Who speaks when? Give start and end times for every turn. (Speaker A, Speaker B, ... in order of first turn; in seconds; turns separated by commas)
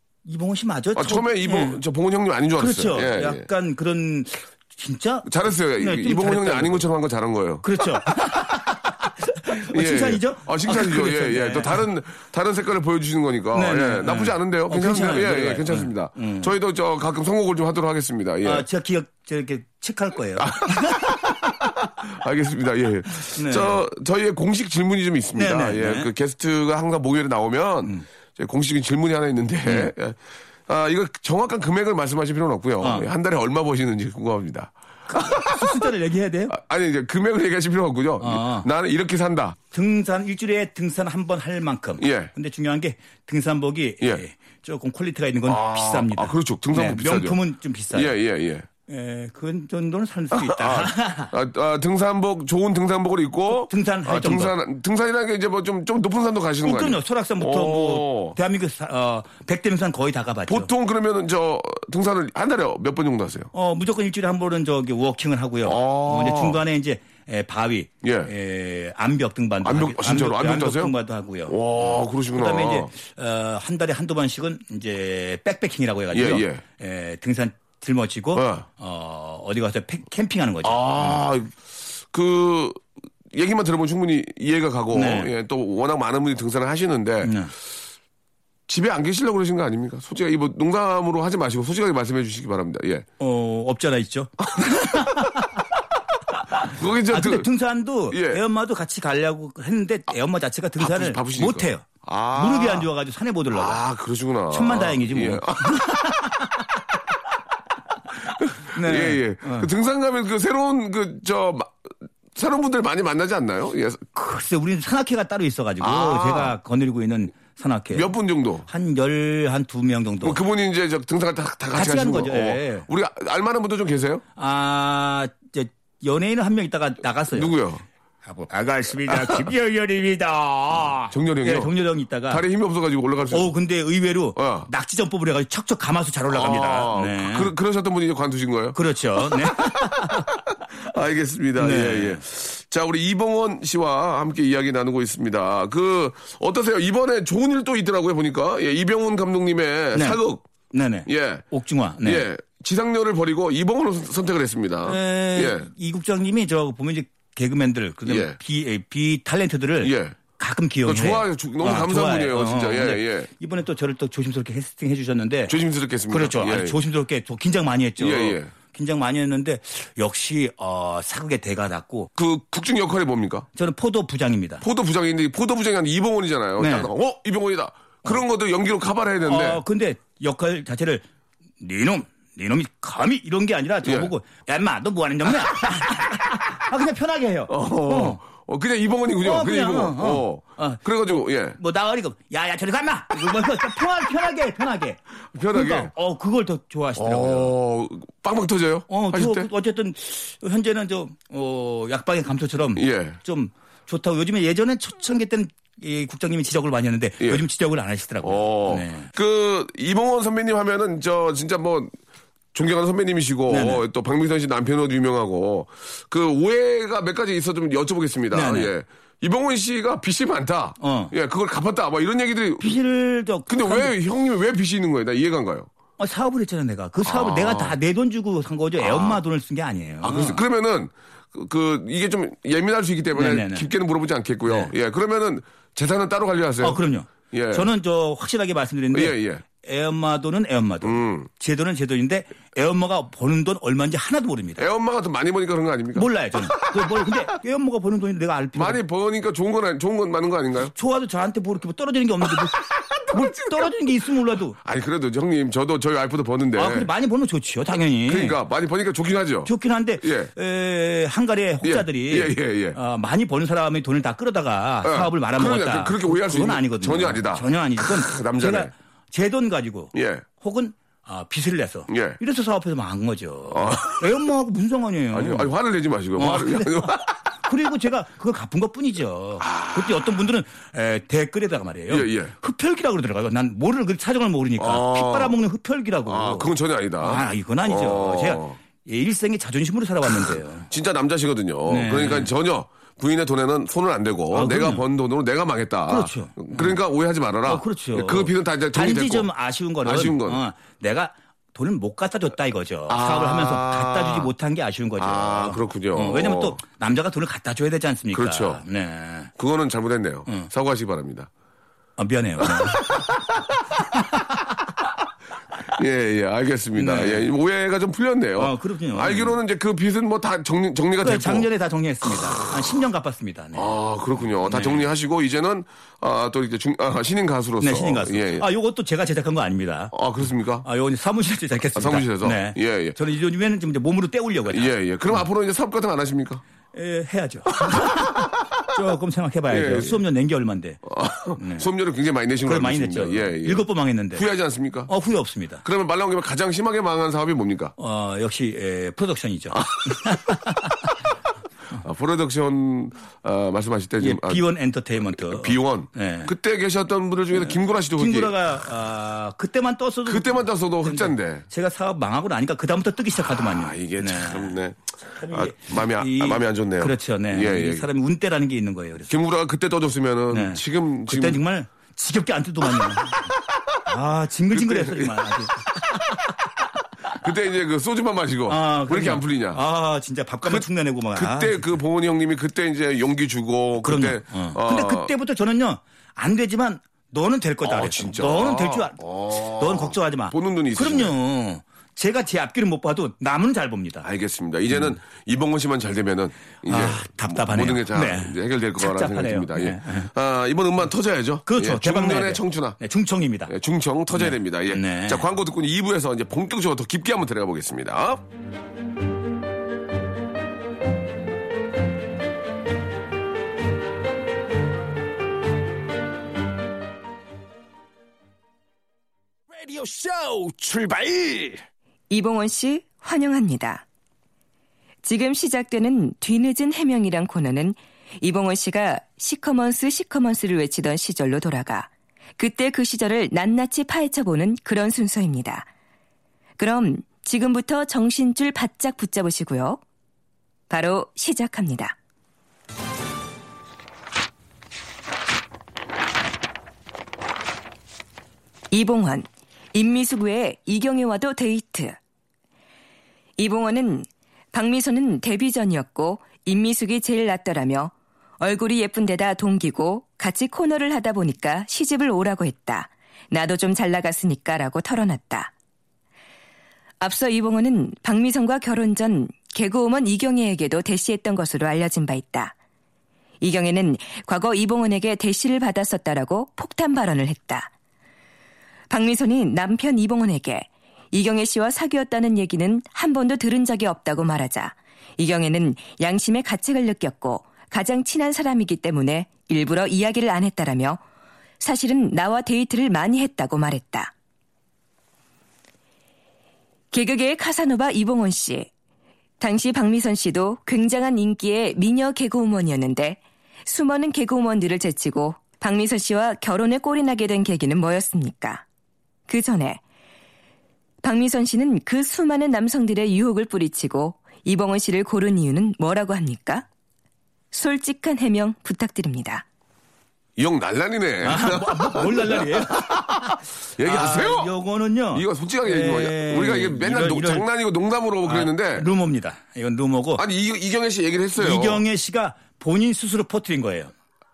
Speaker A: 0.2-1.8, Speaker B: 0.9-3.5, Speaker A: 2.6-6.9, Speaker B: 5.2-7.9, Speaker A: 7.6-11.8, Speaker B: 9.7-18.6, Speaker A: 13.5-16.5, Speaker A: 18.4-21.3, Speaker B: 20.4-35.9, Speaker A: 23.3-23.8, Speaker A: 25.4-26.1, Speaker A: 29.6-29.9, Speaker A: 32.8-33.1, Speaker A: 35.1-36.5, Speaker B: 36.5-39.6, Speaker A: 38.2-38.7, Speaker A: 39.7-48.1, Speaker B: 42.0-42.3, Speaker B: 45.5-47.4, Speaker B: 47.9-48.6, Speaker A: 48.9-51.3, Speaker B: 50.3-58.4, Speaker A: 53.5-54.5, Speaker A: 56.6-60.7, Speaker B: 60.5-63.5, Speaker A: 63.5-81.2, Speaker B: 65.6-66.6, Speaker B: 68.0-68.3, Speaker B: 69.6-70.9, Speaker B: 71.5-72.9, Speaker B: 76.1-76.6, Speaker B: 78.3-78.7, Speaker B: 80.6-81.6, Speaker B: 82.1-82.8, Speaker B: 83.3-87.3, Speaker A: 84.9-85.3, Speaker A: 87.2-87.5, Speaker B: 88.7-93.0, Speaker A: 93.2-95.6, Speaker A: 96.5-103.8, Speaker B: 96.6-97.5, Speaker B: 98.1-98.4, Speaker B: 100.8-102.9, Speaker B: 103.5-105.9, Speaker A: 104.5-106.5, Speaker B: 108.4-111.8, Speaker A: 108.7-109.7, Speaker B: 112.3-114.0, Speaker A: 114.1-118.1, Speaker B: 115.8-116.5, Speaker B: 117.9-118.7, Speaker A: 118.7-120.4, Speaker B: 120.2-124.2, Speaker A: 121.7-122.9, Speaker A: 124.3-127.6, Speaker B: 127.3-127.8, Speaker A: 128.2-132.4, Speaker B: 129.1-129.4, Speaker B: 131.1-131.7, Speaker B: 132.3-133.5, Speaker A: 133.3-137.5, Speaker B: 134.3-134.7, Speaker B: 136.3-140.2, Speaker A: 138.7-140.3, Speaker B: 140.8-150.4, Speaker A: 141.6-142.2, Speaker A: 149.9-150.2, Speaker A: 150.7-152.3, Speaker B: 151.1-151.4, Speaker B: 152.0-155.7, Speaker A: 154.8-165.6, Speaker B: 158.1-158.4, Speaker B: 159.8-160.2, Speaker B: 160.8-163.3, Speaker B: 165.5-166.8, Speaker A: 166.1-172.1, Speaker B: 168.0-168.5, Speaker B: 172.2-173.5, Speaker A: 173.5-174.6, Speaker B: 174.6-179.6, Speaker A: 176.6-176.9, Speaker A: 179.2-181.0, Speaker A: 181.6-188.2, Speaker B: 183.8-184.1, Speaker B: 187.5-191.6, Speaker A: 189.2-195.0, Speaker B: 195.3-195.9, Speaker A: 195.5-197.5, Speaker B: 197.0-199.5, Speaker A: 198.9-209.1, Speaker B: 202.8-203.2, Speaker B: 208.2-211.9, Speaker B: 212.5-222.7, Speaker A: 213.5-213.8, Speaker A: 218.3-218.7, Speaker A: 220.8-221.1, Speaker A: 222.6-223.9, Speaker B: 223.5-225.7, Speaker A: 226.0-230.4, Speaker B: 227.0-227.8, Speaker B: 228.8-229.2, Speaker B: 230.0-237.7, Speaker A: 233.1-233.7, Speaker A: 234.4-234.7, Speaker A: 236.6-244.6, Speaker B: 238.9-239.4, Speaker B: 240.8-241.3, Speaker B: 244.6-247.0, Speaker A: 245.9-248.8, Speaker B: 248.5-250.7, Speaker A: 250.7-252.6, Speaker B: 252.6-253.6, Speaker A: 253.1-254.6, Speaker B: 254.6-256.9, Speaker A: 256.5-258.4, Speaker B: 258.1-260.3, Speaker A: 259.4-275.5, Speaker B: 261.6-262.8, Speaker B: 264.8-268.7, Speaker B: 269.9-270.2, Speaker B: 271.9-272.2, Speaker B: 273.5-274.0, Speaker B: 275.1-277.1, Speaker A: 276.1-286.5, Speaker B: 279.4-280.1, Speaker B: 281.9-282.3, Speaker B: 284.6-285.4, Speaker B: 286.1-288.6, Speaker A: 287.0-290.7, Speaker B: 290.7-299.3, Speaker A: 291.7-292.3, Speaker A: 294.3-294.8, Speaker A: 295.9-296.8, Speaker A: 297.4-309.3, Speaker B: 299.8-300.4, Speaker B: 302.9-304.3, Speaker B: 305.0-306.6, Speaker B: 308.1-308.6, Speaker B: 309.4-311.3, Speaker A: 312.0-312.9, Speaker B: 312.5-313.2, Speaker B: 315.7-321.5, Speaker A: 316.8-317.3, Speaker A: 318.4-319.4, Speaker A: 321.0-323.7, Speaker B: 323.5-328.4, Speaker A: 324.4-324.9, Speaker A: 327.6-329.9, Speaker B: 329.9-330.6, Speaker A: 330.6-335.2, Speaker B: 331.7-332.9, Speaker B: 334.5-336.4, Speaker A: 336.7-340.8, Speaker B: 339.5-340.0, Speaker B: 340.8-344.9, Speaker A: 341.4-341.6, Speaker A: 342.4-344.2, Speaker A: 344.9-345.6, Speaker B: 345.6-347.7, Speaker A: 347.8-350.7, Speaker B: 349.6-350.2, Speaker B: 351.8-354.4, Speaker A: 354.0-356.3, Speaker B: 355.2-358.3, Speaker A: 357.3-364.6, Speaker B: 360.1-361.4, Speaker B: 363.3-367.9, Speaker A: 365.2-369.1, Speaker B: 369.1-371.4, Speaker A: 370.3-373.3, Speaker A: 373.9-375.8, Speaker B: 374.5-375.2, Speaker B: 377.2-379.6, Speaker A: 378.5-381.8, Speaker B: 380.4-385.1, Speaker A: 383.8-389.0, Speaker B: 387.6-391.1, Speaker A: 389.5-394.1, Speaker B: 394.0-402.8, Speaker A: 394.7-394.9, Speaker A: 396.6-400.1, Speaker A: 401.4-403.5, Speaker B: 403.5-408.2, Speaker A: 404.1-405.2, Speaker C: 419.5-421.6, Speaker D: 422.1-423.8, Speaker D: 425.0-435.7, Speaker D: 436.6-439.8, Speaker D: 440.7-441.9, Speaker D: 448.7-451.9, Speaker D: 453.4-465.5, Speaker D: 467.0-472.5, Speaker D: 473.4-477.7, Speaker D: 478.9-491.0, Speaker D: 491.6-494.1, Speaker D: 496.9-498.7, Speaker D: 499.4-508.6, Speaker D: 509.3-509.8, Speaker D: 511.0-516.6, Speaker D: 517.5-519.4, Speaker B: 520.4-524.5, Speaker A: 521.2-527.5, Speaker B: 525.1-528.9, Speaker A: 528.2-530.2, Speaker B: 530.2-531.8, Speaker A: 531.4-533.9